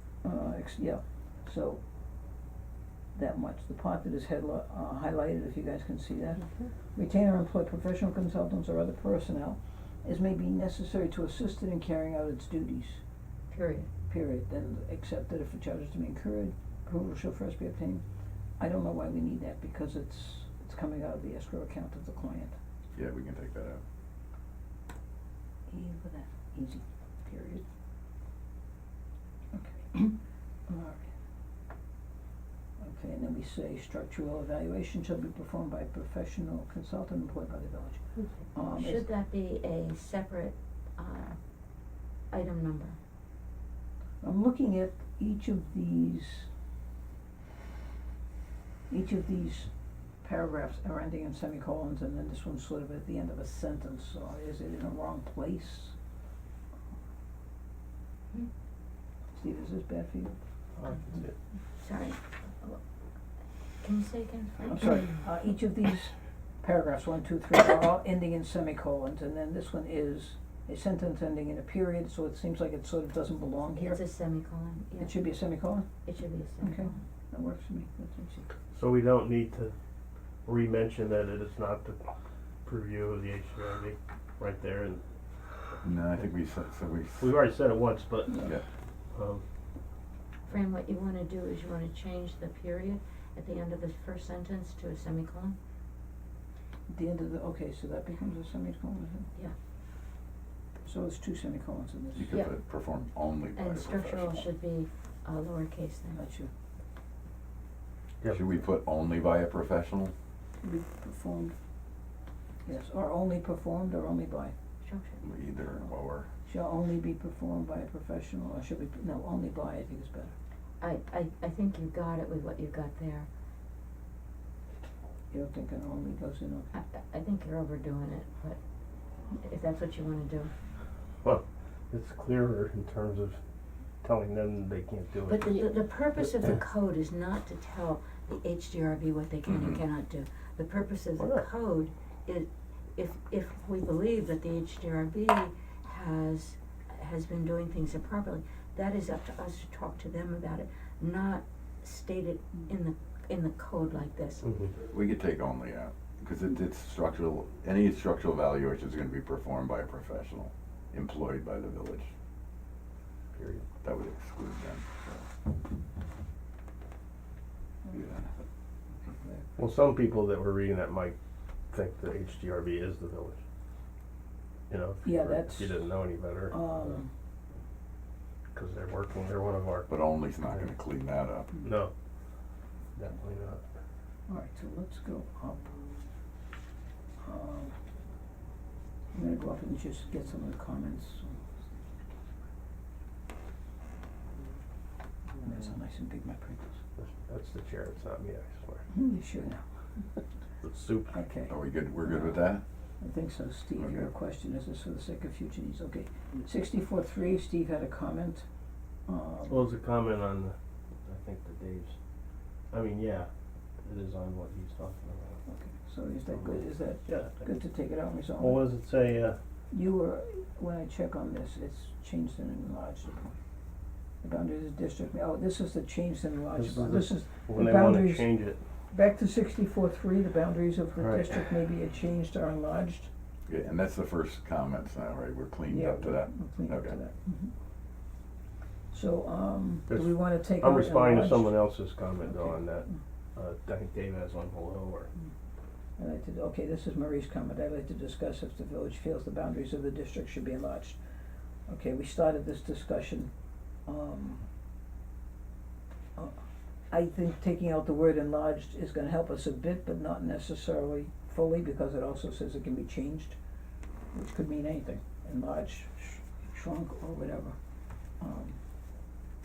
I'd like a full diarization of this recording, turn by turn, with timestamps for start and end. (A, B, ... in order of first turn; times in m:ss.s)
0:00.2-0:01.8 A
0:03.1-0:13.0 A
0:13.5-0:13.9 B
0:14.1-0:18.0 A
0:18.6-0:22.6 A
0:22.9-0:23.8 C
0:25.7-0:27.6 A
0:29.5-0:30.2 A
0:30.7-0:31.1 A
0:32.8-0:39.1 A
0:38.2-0:41.4 B
0:42.3-0:43.0 B
0:44.2-0:46.5 A
0:48.9-0:49.7 A
0:50.2-0:55.9 A
0:59.3-1:00.3 A
1:00.8-1:01.3 D
1:01.8-1:02.8 B
1:03.8-1:05.1 B
1:04.7-1:14.0 A
1:13.8-1:15.2 B
1:15.0-1:15.9 A
1:16.0-1:17.0 B
1:16.6-1:18.5 A
1:18.7-1:19.7 D
1:20.4-1:22.1 D
1:22.6-1:25.0 D
1:25.8-1:27.3 C
1:27.2-1:28.5 D
1:29.1-1:29.4 D
1:30.5-1:35.6 B
1:36.9-1:39.3 A
1:40.8-1:42.3 A
1:42.1-1:44.4 C
1:43.6-1:46.2 B
1:46.1-1:46.5 A
1:48.3-1:50.1 C
1:50.6-1:51.5 A
1:52.6-1:54.5 A
1:54.8-1:55.2 B
1:55.2-1:56.3 C
1:56.4-2:00.3 A
2:00.8-2:03.3 B
2:05.3-2:06.7 A
2:06.7-2:08.6 B
2:09.4-2:10.5 B
2:11.2-2:13.4 D
2:14.0-2:15.6 D
2:15.3-2:34.5 B
2:19.5-2:19.8 C
2:21.2-2:21.4 D
2:34.4-2:34.7 D
2:34.9-2:42.1 C
2:43.4-2:43.7 D
2:43.8-2:45.3 C
2:47.8-2:48.2 A
2:49.6-2:51.2 D
2:51.7-2:53.4 D
2:54.7-2:57.0 D
2:55.0-2:55.9 A
2:56.5-2:57.1 A
2:58.5-2:59.9 D
2:59.9-3:01.5 C
3:01.6-3:01.9 D
3:02.9-3:03.6 D
3:04.3-3:05.8 A
3:07.2-3:07.7 A
3:09.1-3:11.4 A
3:15.4-3:16.8 A
3:17.0-3:18.9 D
3:18.9-3:19.6 A
3:20.6-3:21.2 D
3:21.1-3:28.5 A
3:21.5-3:22.6 C
3:23.8-3:24.1 C
3:29.0-3:29.6 A
3:29.5-3:32.0 D
3:32.7-3:35.4 D
3:35.5-3:38.6 A
3:36.3-3:37.5 D
3:38.4-3:39.4 D
3:39.7-3:43.3 A
3:44.2-3:48.3 A
3:46.5-3:48.6 D
3:48.9-3:53.1 A
3:51.0-3:51.4 D
3:53.5-3:57.0 C
3:55.7-3:57.5 A
3:58.9-4:01.7 A
3:59.9-4:05.1 D
4:02.2-4:03.0 A
4:06.0-4:11.0 A
4:11.7-4:13.3 A
4:13.8-4:14.4 A
4:16.9-4:23.4 A
4:24.1-4:27.6 A
4:28.2-4:28.6 A